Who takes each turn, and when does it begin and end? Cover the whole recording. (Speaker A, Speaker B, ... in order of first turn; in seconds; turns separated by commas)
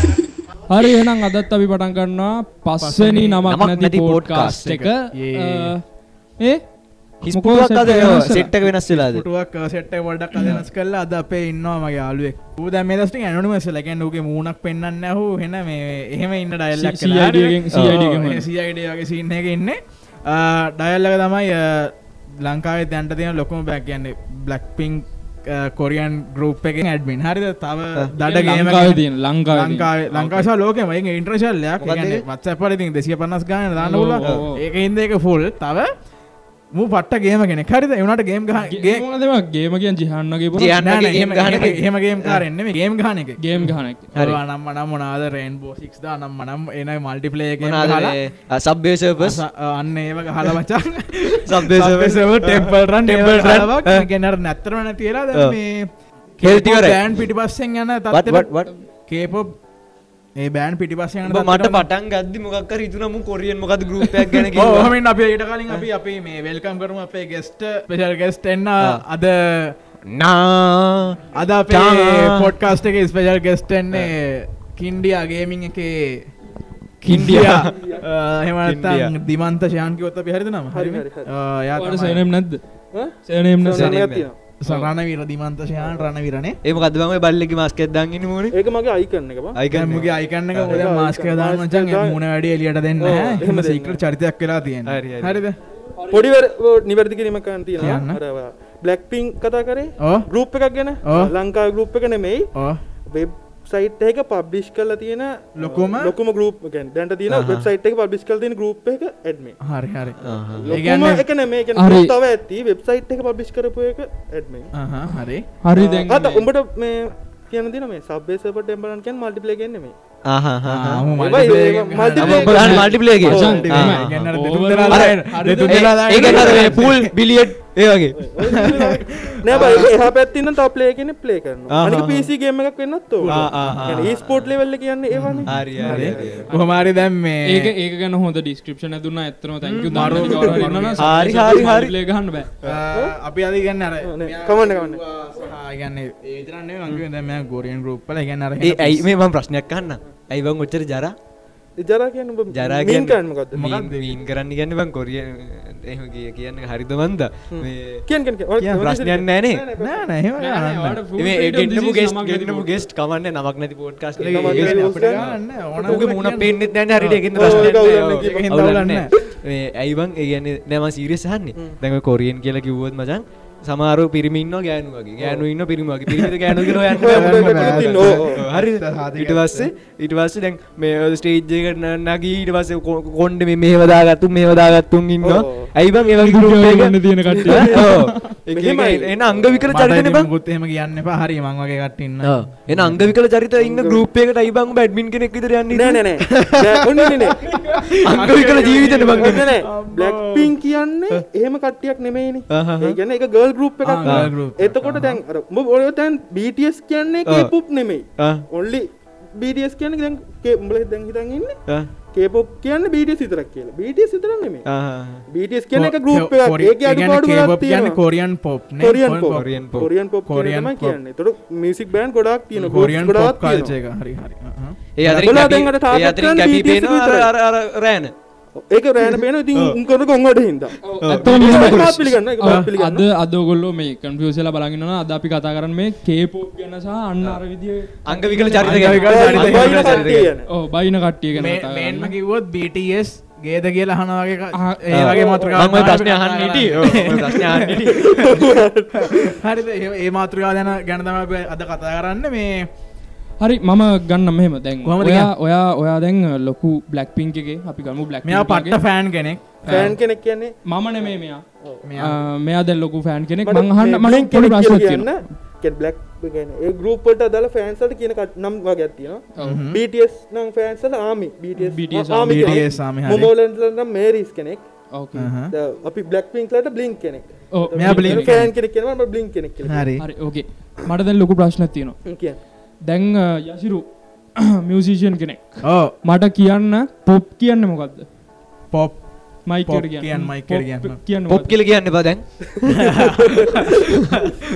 Speaker A: 0.7-6.6, Speaker B: 2.8-3.5, Speaker C: 3.5-4.6, Speaker B: 4.5-5.7, Speaker A: 7.2-8.5, Speaker C: 7.2-9.2, Speaker B: 8.0-35.9, Speaker A: 16.8-18.5, Speaker A: 28.2-29.9, Speaker C: 30.1-30.5, Speaker C: 31.8-32.2, Speaker A: 33.8-34.6, Speaker B: 36.8-39.0, Speaker A: 38.7-40.7, Speaker C: 40.5-42.4, Speaker B: 40.8-48.2, Speaker A: 43.4-44.1, Speaker C: 44.1-44.4, Speaker C: 47.6-49.4, Speaker B: 49.2-59.5, Speaker C: 51.4-54.1, Speaker C: 56.4-57.0, Speaker C: 58.1-58.7, Speaker B: 60.4-61.9, Speaker C: 61.3-65.0, Speaker B: 64.5-69.8, Speaker C: 70.1-71.2, Speaker B: 71.3-76.2, Speaker C: 71.7-72.5, Speaker B: 77.0-82.3, Speaker C: 77.0-77.7, Speaker C: 78.7-79.1, Speaker D: 80.7-81.3, Speaker A: 81.8-84.0, Speaker D: 82.9-84.3, Speaker C: 83.8-84.3, Speaker B: 84.6-86.6, Speaker C: 86.6-88.5, Speaker D: 88.5-89.6, Speaker C: 89.5-90.9, Speaker B: 89.7-95.6, Speaker D: 90.7-92.2, Speaker D: 93.0-94.0, Speaker C: 94.9-95.4, Speaker A: 96.0-96.3, Speaker D: 96.1-102.5, Speaker B: 97.8-98.2, Speaker B: 100.0-100.3, Speaker B: 101.0-101.3, Speaker B: 102.5-102.8, Speaker D: 103.1-109.6, Speaker B: 105.5-106.1, Speaker C: 107.3-107.7, Speaker B: 109.6-111.2, Speaker C: 110.2-110.7, Speaker D: 110.6-114.7, Speaker A: 111.8-112.1, Speaker B: 114.8-115.5, Speaker A: 115.6-116.5, Speaker D: 115.8-119.9, Speaker C: 120.3-121.1, Speaker B: 120.7-127.1, Speaker D: 121.2-123.7, Speaker C: 122.2-124.3, Speaker A: 122.5-126.8, Speaker C: 125.7-128.3, Speaker D: 128.2-136.5, Speaker B: 128.6-129.8, Speaker C: 129.5-130.0, Speaker C: 131.7-132.3, Speaker B: 133.2-134.0, Speaker C: 133.3-134.5, Speaker B: 135.1-137.7, Speaker C: 135.5-136.5, Speaker A: 137.5-142.5, Speaker C: 139.6-141.9, Speaker B: 139.9-141.7, Speaker B: 142.6-149.1, Speaker D: 144.0-145.0, Speaker C: 148.6-151.1, Speaker D: 151.8-153.6, Speaker C: 152.5-158.0, Speaker B: 153.6-154.2, Speaker D: 157.5-160.1, Speaker B: 158.6-158.9, Speaker C: 158.8-159.6, Speaker B: 159.8-161.0, Speaker A: 160.4-162.7, Speaker C: 161.2-190.3, Speaker B: 164.2-169.1, Speaker D: 164.2-165.2, Speaker D: 165.8-166.1, Speaker D: 167.3-168.9, Speaker B: 176.9-179.7, Speaker D: 177.0-178.4, Speaker D: 185.2-185.7, Speaker A: 186.2-187.7, Speaker D: 187.5-189.1, Speaker B: 187.9-188.2, Speaker B: 189.7-193.2, Speaker C: 192.7-196.4, Speaker D: 193.6-194.0, Speaker D: 195.7-197.4, Speaker B: 197.5-200.6, Speaker C: 198.1-199.5, Speaker D: 199.2-211.6, Speaker C: 202.5-203.0, Speaker B: 203.8-205.2, Speaker C: 208.2-208.4, Speaker D: 212.1-214.7, Speaker C: 214.7-215.2, Speaker D: 215.3-218.0, Speaker B: 215.7-221.0, Speaker D: 218.8-223.7, Speaker C: 219.3-219.9, Speaker B: 222.6-225.3, Speaker C: 225.0-228.1, Speaker D: 225.1-227.3, Speaker D: 228.7-233.0, Speaker A: 230.8-231.9, Speaker C: 231.0-232.2, Speaker A: 232.4-239.5, Speaker C: 238.1-240.3, Speaker B: 238.6-240.1, Speaker D: 239.1-240.5, Speaker A: 240.5-242.1, Speaker B: 241.3-248.5, Speaker C: 244.9-248.4, Speaker D: 245.2-245.6, Speaker D: 248.1-249.3, Speaker B: 249.0-252.7, Speaker A: 253.4-258.8, Speaker B: 254.8-255.3, Speaker B: 258.2-260.0, Speaker A: 259.6-259.9, Speaker D: 259.7-261.1, Speaker A: 260.6-261.4, Speaker B: 261.8-262.2, Speaker A: 262.0-265.2, Speaker D: 263.4-274.6, Speaker A: 269.4-269.6, Speaker B: 269.4-269.8, Speaker A: 271.6-272.6, Speaker B: 272.2-273.3, Speaker A: 274.9-275.3, Speaker B: 275.2-275.5, Speaker D: 275.5-279.9, Speaker A: 277.5-278.3, Speaker B: 277.8-278.6, Speaker B: 279.6-280.1, Speaker A: 280.0-282.0, Speaker D: 282.1-282.4, Speaker A: 282.9-288.1, Speaker B: 285.6-285.9, Speaker B: 288.7-291.0, Speaker A: 289.5-291.5, Speaker C: 291.3-292.7, Speaker B: 292.9-293.7